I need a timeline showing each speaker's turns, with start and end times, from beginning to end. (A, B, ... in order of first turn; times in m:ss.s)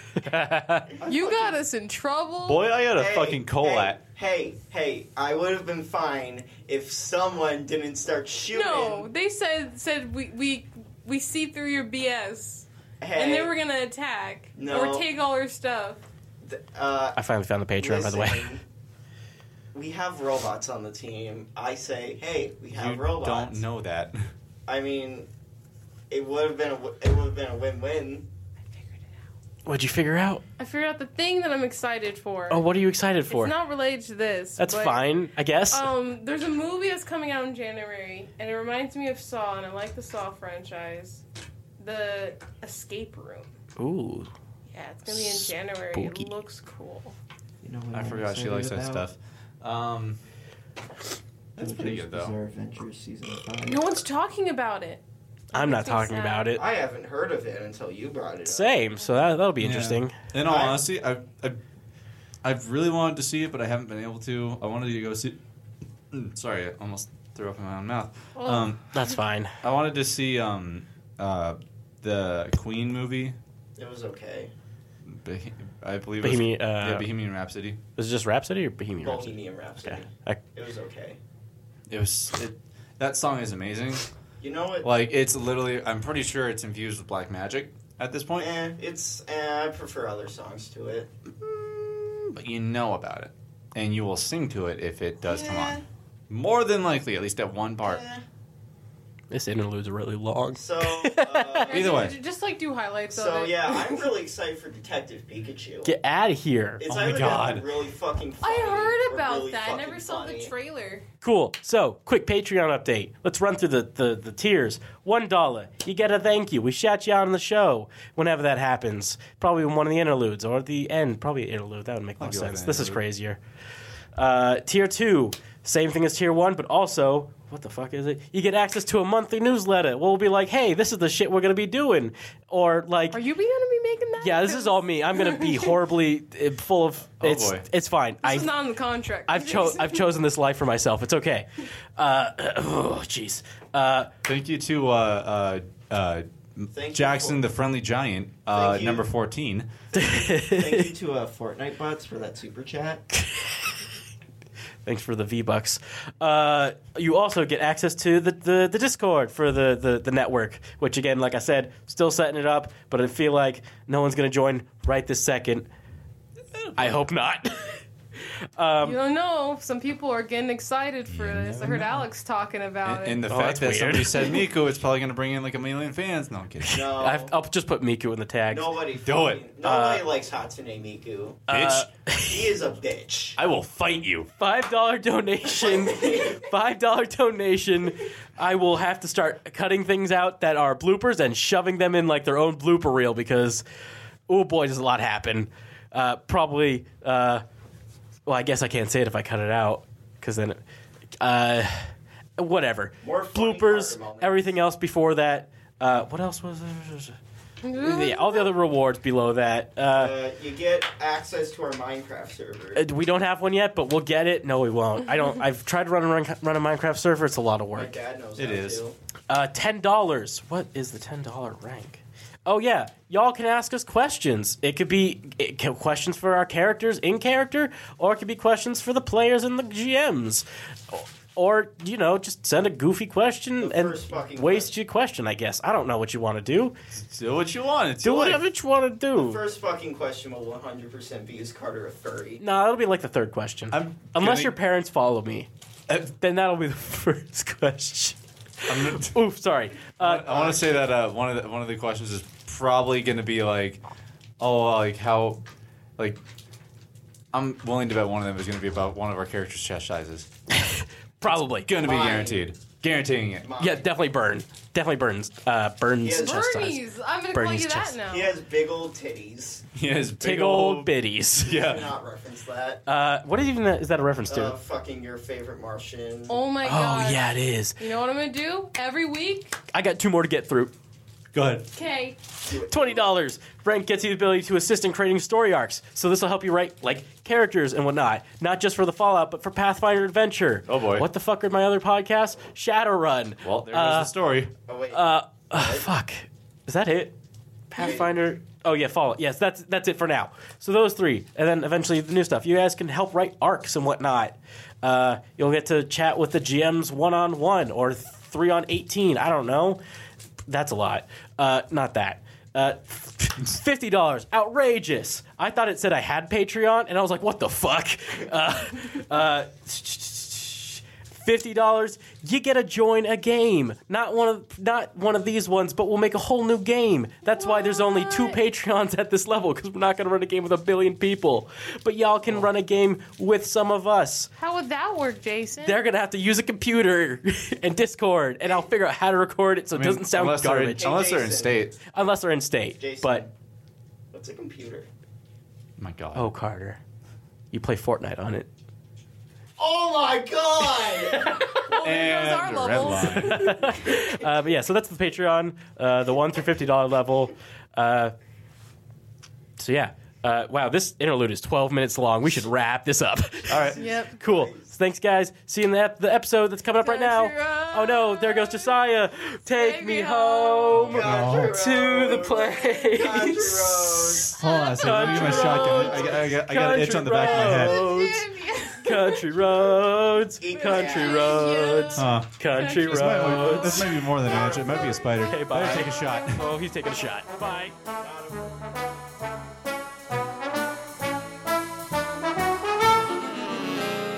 0:00.2-0:00.9 A
0:01.0-0:01.6 B
0:01.1-0:02.7 C
0:02.5-0:04.0 D
0:02.9-0:09.1 B
0:08.5-0:16.0 C
0:13.0-0:13.6 B
0:14.6-0:15.1 B
0:16.4-0:17.2 B
0:17.2-0:18.6 A
0:17.8-0:18.6 B
0:19.7-0:23.7 B
0:22.7-0:24.3 D
0:24.7-0:25.3 B
0:26.1-0:28.3 B
0:29.7-0:30.4 A
0:30.6-0:32.7 C
0:32.5-0:33.6 A
0:33.3-0:35.0 C
0:34.6-0:35.9 A
0:35.7-0:41.2 C
0:41.8-0:43.5 C
0:43.8-0:44.3 A
0:44.7-0:47.2 C
0:45.1-0:46.3 A
0:47.6-0:49.1 B
0:47.9-0:50.2 D
0:51.6-0:52.3 D
0:51.6-0:53.9 B
0:53.6-0:56.6 C
0:55.5-0:56.6 A
0:56.6-0:58.8 B
0:58.5-1:00.2 A
0:59.6-1:01.6 D
1:00.4-1:00.9 B
1:02.4-1:05.4 D
1:06.1-1:08.9 D
1:08.4-1:08.8 C
1:08.9-1:09.5 A
1:09.6-1:13.4 D
1:13.8-1:14.5 B
1:15.1-1:17.8 D
1:16.2-1:17.1 A
1:18.0-1:20.4 A
1:19.0-1:21.2 B
1:21.9-1:24.1 D
1:24.4-1:24.9 B
1:24.8-1:28.5 D
1:28.4-1:31.1 B
1:31.4-1:38.0 D
1:35.2-1:35.8 B
1:37.8-1:38.2 B
1:39.3-1:41.6 A
1:40.5-1:42.1 B
1:41.6-1:44.0 C
1:41.7-1:42.2 D
1:43.1-1:45.9 B
1:45.8-1:46.8 A
1:46.8-1:50.5 B
1:46.9-1:47.7 D
1:48.4-1:51.1 C
1:51.2-2:03.4 A
2:02.2-2:03.0 D
2:04.2-2:13.2 A
2:13.1-2:15.8 C
2:14.2-2:18.5 A
2:17.2-2:17.7 D
2:18.2-2:20.1 C
2:19.3-2:24.1 A
2:24.2-2:29.7 D
2:26.7-2:27.4 B
2:28.5-2:29.1 B
2:29.9-2:33.0 B
2:29.9-2:30.9 A
2:34.8-2:45.7 A
2:46.7-2:47.0 D
2:46.8-2:47.8 A
2:48.6-2:49.0 A
2:48.8-2:53.2 C
2:51.1-2:52.0 D
2:52.8-2:56.9 D
2:53.3-2:54.3 A
2:56.7-2:58.7 A
2:56.7-2:57.3 B
2:58.5-3:01.4 B
2:59.0-2:59.4 D
2:59.6-3:00.1 A
3:01.5-3:02.5 A
3:01.5-3:01.9 D
3:02.2-3:03.4 B
3:03.4-3:04.3 D
3:04.3-3:13.6 A
3:05.5-3:06.4 B
3:14.3-3:17.4 A
3:18.3-3:20.6 A
3:21.2-3:27.2 A
3:23.0-3:24.6 B
3:27.6-3:28.5 C
3:27.8-3:30.2 A
3:29.9-3:32.8 B
3:32.8-3:38.0 A
3:37.7-3:39.0 B
3:38.4-3:38.8 D
3:39.3-3:56.8 A
3:53.6-3:54.7 B
3:56.9-3:58.4 D
3:58.0-3:59.4 A
3:59.2-4:02.4 B
4:02.4-4:08.2 A
4:03.7-4:04.5 D
4:08.7-4:09.2 D
4:08.7-4:10.4 A
4:10.0-4:13.8 D
4:10.2-4:10.8 B
4:14.4-4:15.4 D
4:17.3-4:20.3 D
4:20.5-4:21.7 A
4:21.2-4:23.5 D
4:21.8-4:22.5 B
4:23.4-4:23.9 B
4:23.6-4:28.0 A
4:26.0-4:26.5 B
4:26.2-4:28.3 C
4:28.1-4:29.6 B
4:29.8-4:31.9 D
4:30.2-4:31.5 A
4:31.4-4:32.8 B
4:32.9-4:34.6 A
4:34.3-4:36.4 B
4:36.3-4:39.6 C
4:36.6-4:37.8 A
4:39.7-4:40.7 A
4:41.3-4:41.7 D
4:41.7-4:42.2 C
4:42.4-4:43.2 B
4:42.7-4:54.1 A
4:50.7-4:51.1 D
4:53.4-4:54.5 D
4:54.7-4:55.9 B
4:54.9-4:57.2 A
4:57.7-5:09.8 A
4:57.8-4:58.1 B
5:10.5-5:34.3 A
5:27.3-5:28.4 C
5:34.4-5:35.8 C
5:35.6-5:40.9 A
5:39.7-5:41.8 D
5:40.8-5:41.7 B
5:41.9-5:43.2 A
5:42.8-5:43.3 B
5:44.1-5:44.9 B
5:45.8-5:46.3 D
5:46.2-5:46.8 A
5:47.5-5:48.5 A
5:49.6-5:51.5 B
5:51.5-5:53.6 C
5:51.8-5:53.6 D
5:53.0-5:58.2 A
5:59.6-6:24.0 A
6:03.5-6:04.7 B
6:03.5-6:03.8 D
6:03.8-6:04.2 C
6:06.8-6:08.8 C
6:09.5-6:10.9 C
6:10.9-6:14.4 B
6:10.9-6:11.6 D
6:14.4-6:17.8 D
6:14.4-6:15.0 C
6:15.0-6:16.4 B
6:17.5-6:19.3 C
6:20.4-6:21.6 B
6:20.6-6:23.8 C
6:22.0-6:26.4 D
6:24.2-6:25.2 B
6:25.2-6:27.8 A
6:28.0-6:28.5 B